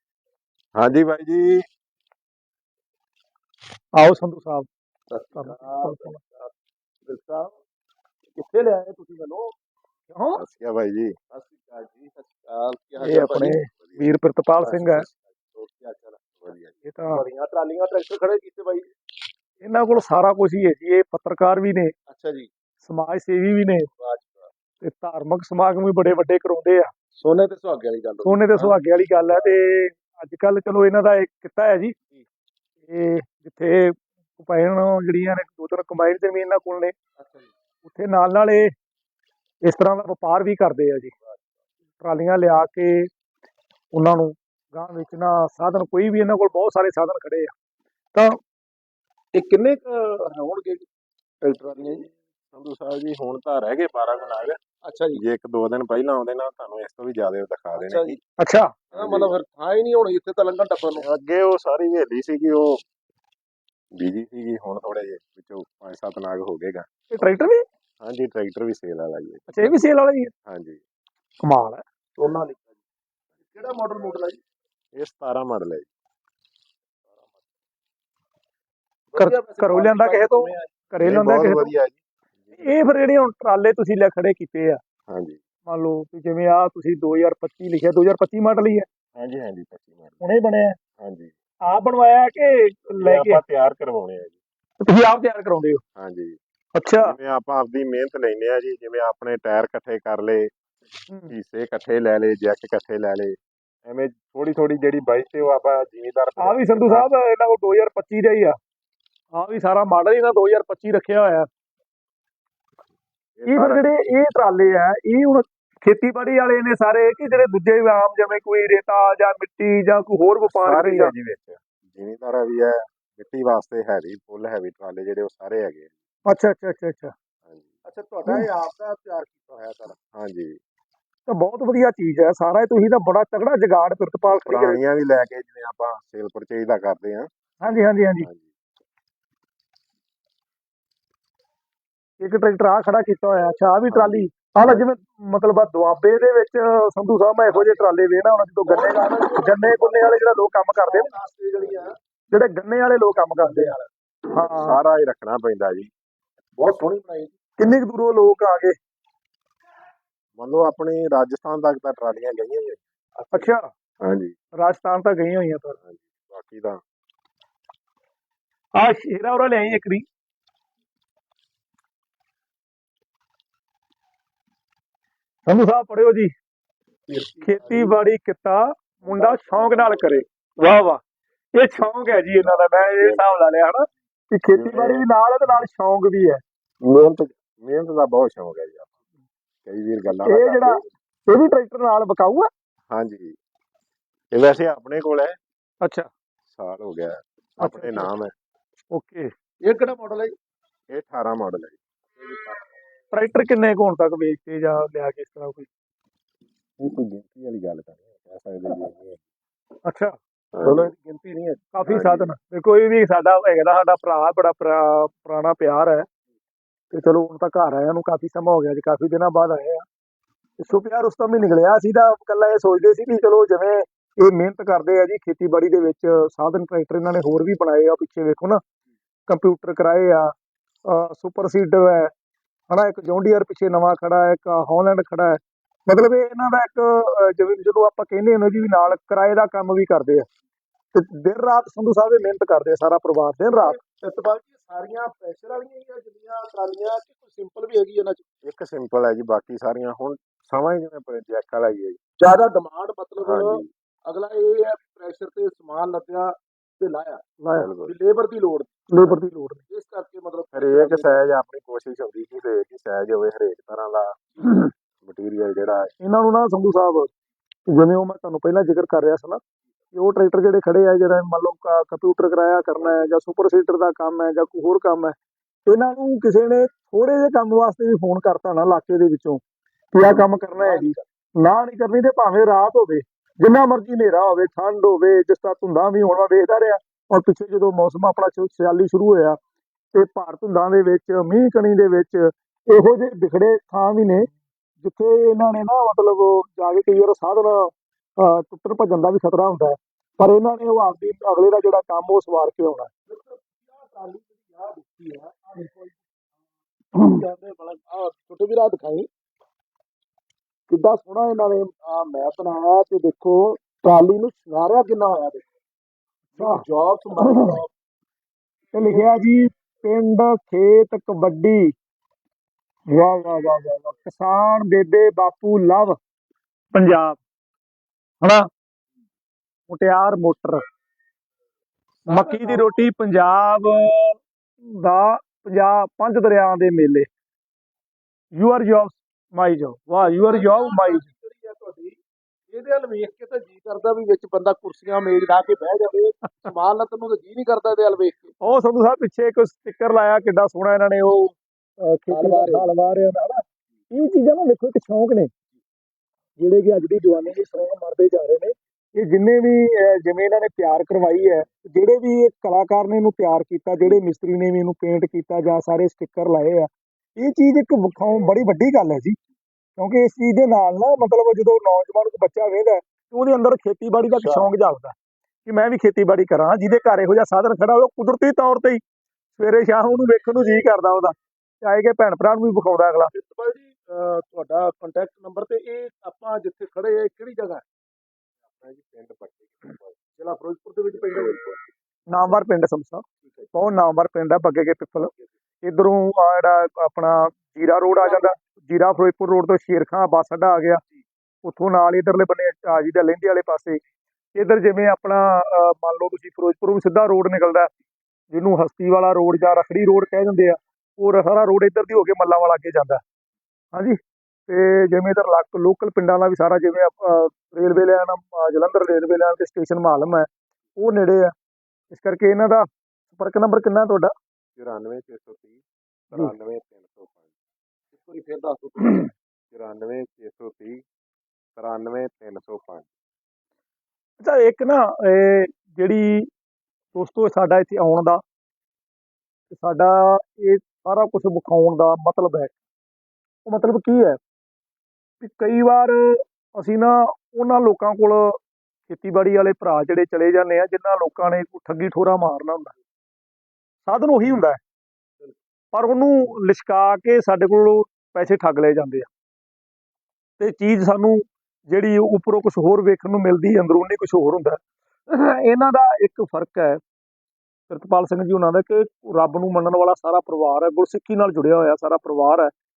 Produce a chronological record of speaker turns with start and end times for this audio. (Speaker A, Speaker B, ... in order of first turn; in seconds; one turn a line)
Speaker A: 0.8-1.6
Speaker B: 4.0-4.7
Speaker C: 5.1-6.5
Speaker B: 5.3-6.2
Speaker C: 7.0-7.5
Speaker C: 8.3-9.5
Speaker B: 10.1-10.4
Speaker A: 10.4-11.1
Speaker C: 11.3-13.6
Speaker B: 13.0-15.1
Speaker A: 13.8-14.1
Speaker A: 14.7-15.1
Speaker C: 15.5-16.4
Speaker A: 16.4-16.7
Speaker B: 16.8-17.2
Speaker C: 17.1-18.9
Speaker B: 19.6-21.9
Speaker C: 22.1-22.5
Speaker B: 22.8-23.9
Speaker C: 24.0-24.5
Speaker B: 24.8-26.9
Speaker C: 27.2-28.8
Speaker B: 28.2-31.9
Speaker B: 32.9-36.9
Speaker C: 37.2-37.5
Speaker B: 37.8-38.7
Speaker B: 39.6-41.1
Speaker B: 42.0-43.1
Speaker B: 43.9-47.5
Speaker C: 49.3-50.9
Speaker C: 51.4-52.1
Speaker A: 52.5-54.6
Speaker C: 54.8-55.2
Speaker A: 55.1-58.2
Speaker C: 57.8-58.2
Speaker B: 58.4-58.7
Speaker A: 58.9-59.3
Speaker C: 58.9-61.0
Speaker A: 61.0-62.7
Speaker A: 64.0-66.8
Speaker B: 67.1-67.6
Speaker A: 68.0-69.8
Speaker B: 69.5-70.3
Speaker A: 70.5-70.8
Speaker B: 71.4-71.8
Speaker C: 72.2-72.8
Speaker C: 73.5-74.4
Speaker A: 75.0-75.9
Speaker C: 77.1-77.4
Speaker C: 79.1-80.7
Speaker B: 79.2-81.7
Speaker A: 81.0-82.7
Speaker B: 82.5-84.8
Speaker A: 85.1-85.4
Speaker B: 85.7-88.9
Speaker A: 89.2-90.2
Speaker B: 90.2-90.8
Speaker A: 91.0-91.3
Speaker B: 91.7-93.4
Speaker A: 92.9-94.4
Speaker B: 94.8-95.8
Speaker A: 96.0-96.4
Speaker B: 96.7-97.1
Speaker A: 97.0-100.5
Speaker B: 101.1-101.3
Speaker A: 101.3-107.1
Speaker B: 106.4-108.5
Speaker B: 109.3-111.5
Speaker A: 113.3-113.8
Speaker B: 113.5-121.1
Speaker A: 120.5-125.9
Speaker B: 126.3-127.1
Speaker A: 127.4-127.7
Speaker C: 127.8-130.0
Speaker A: 130.1-130.6
Speaker B: 131.3-134.8
Speaker A: 134.3-137.3
Speaker B: 137.6-138.3
Speaker A: 138.2-138.5
Speaker B: 142.2-151.1
Speaker A: 143.9-144.8
Speaker C: 147.5-147.9
Speaker C: 148.7-150.3
Speaker C: 150.8-151.9
Speaker A: 151.6-151.8
Speaker B: 152.3-153.7
Speaker C: 153.4-153.9
Speaker B: 154.3-154.8
Speaker A: 154.4-155.9
Speaker C: 156.6-157.3
Speaker B: 157.6-158.7
Speaker A: 160.4-162.8
Speaker C: 163.2-163.5
Speaker B: 163.3-163.7
Speaker A: 164.0-164.3
Speaker B: 164.6-165.8
Speaker A: 165.8-166.8
Speaker B: 168.8-170.0
Speaker B: 175.5-176.3
Speaker C: 177.1-177.9
Speaker B: 177.4-181.0
Speaker A: 179.0-180.2
Speaker B: 181.5-186.4
Speaker A: 182.3-183.3
Speaker A: 184.5-185.1
Speaker A: 186.8-188.9
Speaker A: 189.7-190.9
Speaker B: 190.2-192.5
Speaker A: 192.9-193.3
Speaker A: 194.3-195.3
Speaker B: 195.8-196.1
Speaker A: 196.5-198.3
Speaker B: 197.6-198.1
Speaker B: 198.9-199.3
Speaker C: 199.7-200.3
Speaker A: 200.9-201.8
Speaker C: 202.2-202.7
Speaker B: 203.1-205.7
Speaker A: 206.8-209.2
Speaker B: 209.8-210.2
Speaker A: 210.5-210.9
Speaker C: 210.6-211.7
Speaker B: 211.7-216.1
Speaker A: 211.8-212.3
Speaker B: 216.9-219.8
Speaker B: 220.6-228.6
Speaker B: 229.3-230.3
Speaker B: 230.9-232.1
Speaker B: 232.7-240.2
Speaker B: 240.9-243.8
Speaker C: 243.5-248.2
Speaker A: 248.4-252.0
Speaker C: 252.2-257.2
Speaker A: 253.2-253.7
Speaker B: 257.4-257.7
Speaker A: 257.5-257.9
Speaker C: 257.8-258.9
Speaker B: 258.9-259.6
Speaker C: 259.7-261.3
Speaker A: 260.5-264.2
Speaker A: 265.0-265.9
Speaker B: 266.0-267.1
Speaker B: 267.7-269.4
Speaker B: 269.9-275.1
Speaker B: 275.6-279.4
Speaker B: 279.9-289.4
Speaker C: 280.6-281.0
Speaker B: 289.9-294.3
Speaker B: 294.8-302.9
Speaker C: 303.1-306.0
Speaker C: 306.9-309.1
Speaker C: 310.7-315.4
Speaker B: 316.4-316.6
Speaker C: 316.4-317.7
Speaker B: 317.2-317.6
Speaker B: 318.7-321.7
Speaker B: 322.9-325.9
Speaker B: 326.7-327.2
Speaker B: 328.2-328.5
Speaker B: 329.7-330.6
Speaker C: 332.0-332.8
Speaker B: 332.1-334.2
Speaker B: 334.8-337.1
Speaker B: 338.4-341.0
Speaker C: 340.1-342.0
Speaker C: 342.5-348.4
Speaker B: 346.2-346.5
Speaker B: 348.4-355.3
Speaker C: 352.1-352.7
Speaker B: 356.4-369.1
Speaker B: 369.8-378.8
Speaker C: 374.1-374.5
Speaker B: 379.4-383.1
Speaker C: 383.1-387.6
Speaker A: 388.5-390.0
Speaker C: 390.2-391.7
Speaker B: 392.1-395.1
Speaker B: 395.6-400.8
Speaker C: 397.8-398.3
Speaker B: 401.4-403.8
Speaker B: 404.3-407.7
Speaker B: 408.3-413.0
Speaker B: 414.5-421.3
Speaker B: 421.9-424.1
Speaker A: 424.6-427.3
Speaker C: 427.9-429.1
Speaker A: 429.5-430.8
Speaker A: 431.6-432.9
Speaker B: 434.2-436.3
Speaker B: 436.9-438.2
Speaker B: 439.5-442.5
Speaker B: 443.4-444.2
Speaker B: 445.2-452.7
Speaker B: 453.9-454.6
Speaker B: 455.7-459.1
Speaker B: 460.4-466.8
Speaker B: 467.7-472.5